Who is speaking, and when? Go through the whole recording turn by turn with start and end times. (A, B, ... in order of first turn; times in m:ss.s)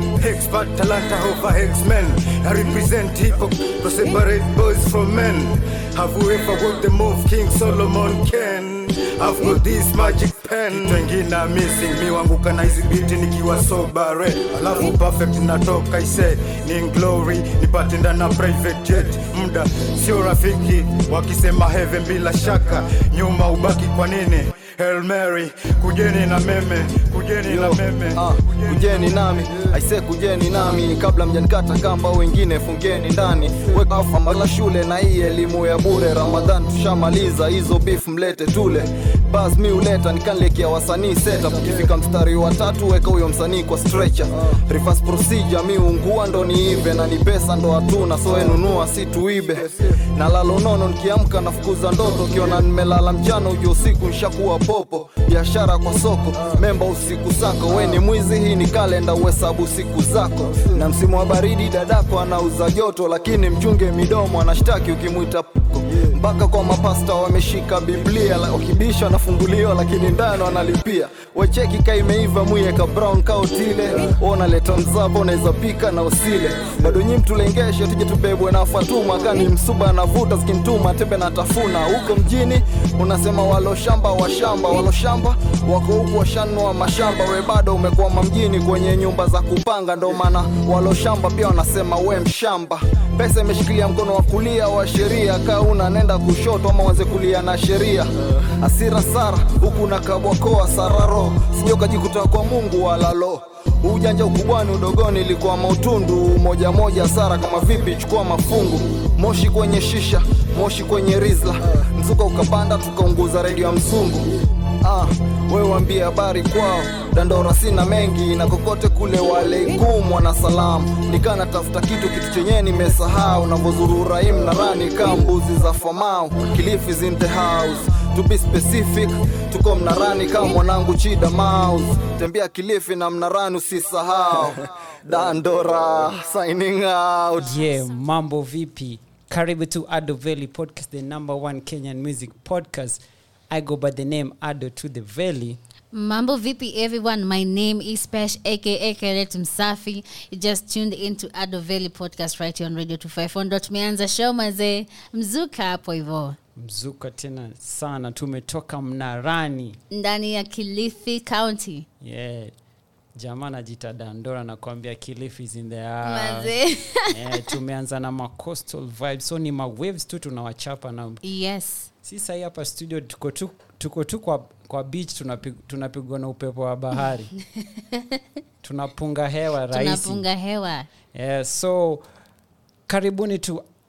0:00.2-0:28.7 A
0:27.5-1:54.3 B
1:54.8-2:17.5 B
2:17.4-2:25.6 C
2:17.4-2:18.0 D
2:25.9-2:36.4 D
2:36.6-2:39.8 C
2:39.9-2:41.9 D
2:42.0-2:42.5 C
2:43.2-2:46.6 C
2:46.0-2:47.0 D
2:47.1-2:51.2 C
2:51.2-2:51.9 D
2:52.0-2:57.3 C
2:57.6-2:58.0 D
2:58.6-3:00.2 C
2:59.7-3:00.9 D
3:01.1-3:02.0 C
3:02.9-3:03.6 C